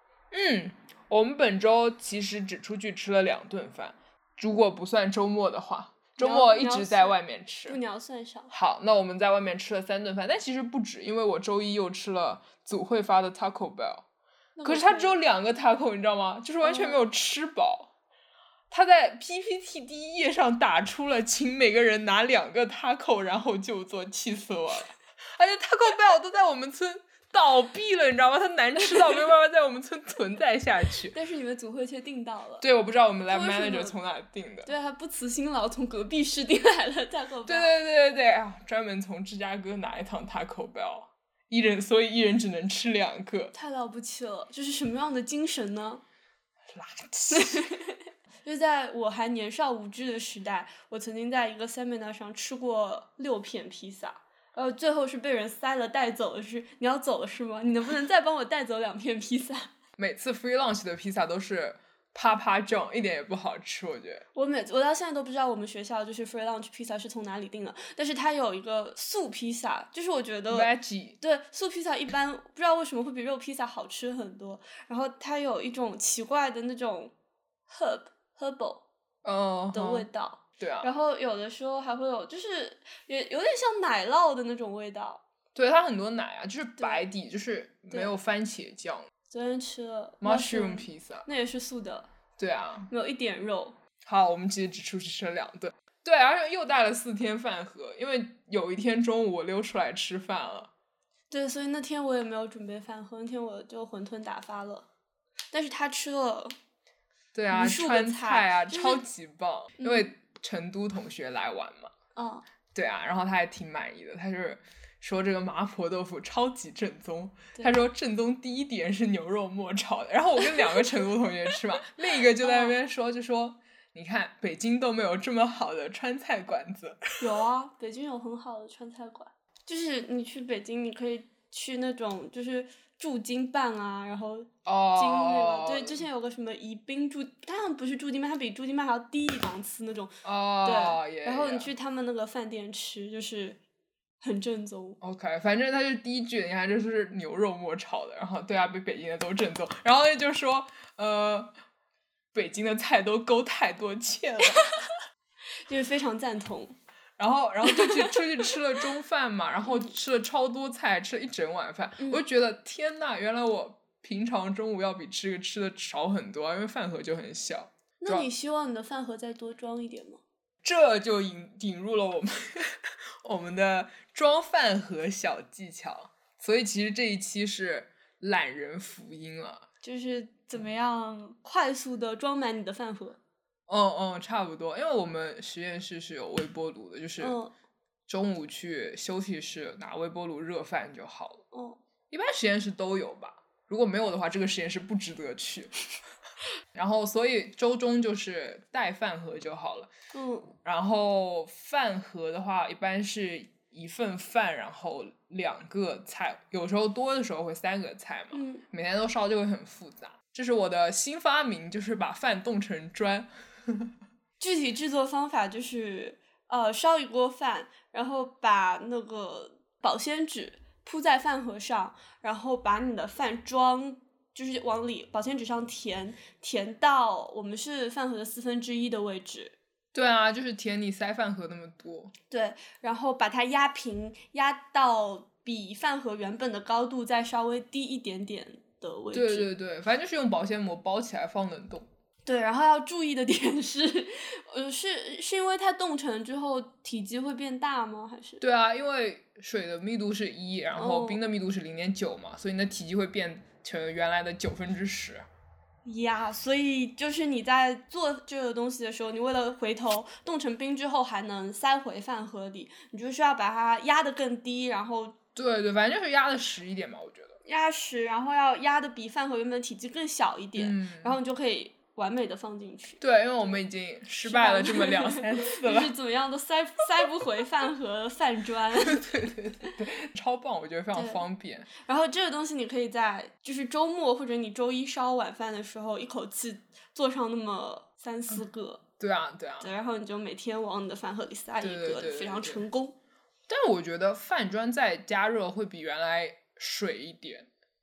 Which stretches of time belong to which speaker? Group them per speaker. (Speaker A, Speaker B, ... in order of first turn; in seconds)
Speaker A: 0.3-7.8, 8.5-14.1, 14.7-17.9, 18.7-31.1, 32.6-34.7, 37.5-43.5, 46.7-47.6, 60.0-64.2, 70.5-71.2, 79.2-80.1, 80.6-80.9, 85.5-89.1, 90.2-91.3, 92.4-92.9, 94.0-100.7, 107.3-111.9, 112.7-127.0, 134.7-136.0, 140.2-141.7, 145.0-151.5, 152.3-154.7, 157.2-168.3, 170.6-179.6, 183.7-187.4, 188.1-191.4, 192.1-195.8, 196.8-199.9, 200.6-213.9, 229.9-232.1, 239.1-241.9, 248.4-255.3, 265.4-267.4, 270.6-271.2, 273.0-275.9, 278.8-281.7, 289.0-289.7, 291.6-292.7, 293.5-297.5
Speaker B: 6.2-8.5, 14.6-15.2, 16.6-17.0, 31.1-32.6, 33.3-34.0, 34.7-37.7, 43.5-46.0, 47.3-59.7, 64.3-70.7, 71.2-77.1, 77.7-78.8, 79.7-85.2, 86.8-87.0, 89.3-92.1, 92.9-93.8, 101.3-104.9, 105.5-106.5, 107.5-109.0, 109.8-110.1, 112.2-112.5, 122.4-122.8, 127.2-143.6, 144.2-145.0, 155.7-156.8, 157.6-158.9, 159.7-159.9, 168.0-170.2, 179.8-183.2, 187.2-187.5, 191.5-191.8, 200.1-200.5, 208.3-208.6, 214.4-229.6, 232.3-239.5, 242.3-248.4, 250.8-251.2, 255.8-265.2, 267.4-273.0, 274.2-279.1, 280.9-281.2, 281.8-288.8, 289.6-293.0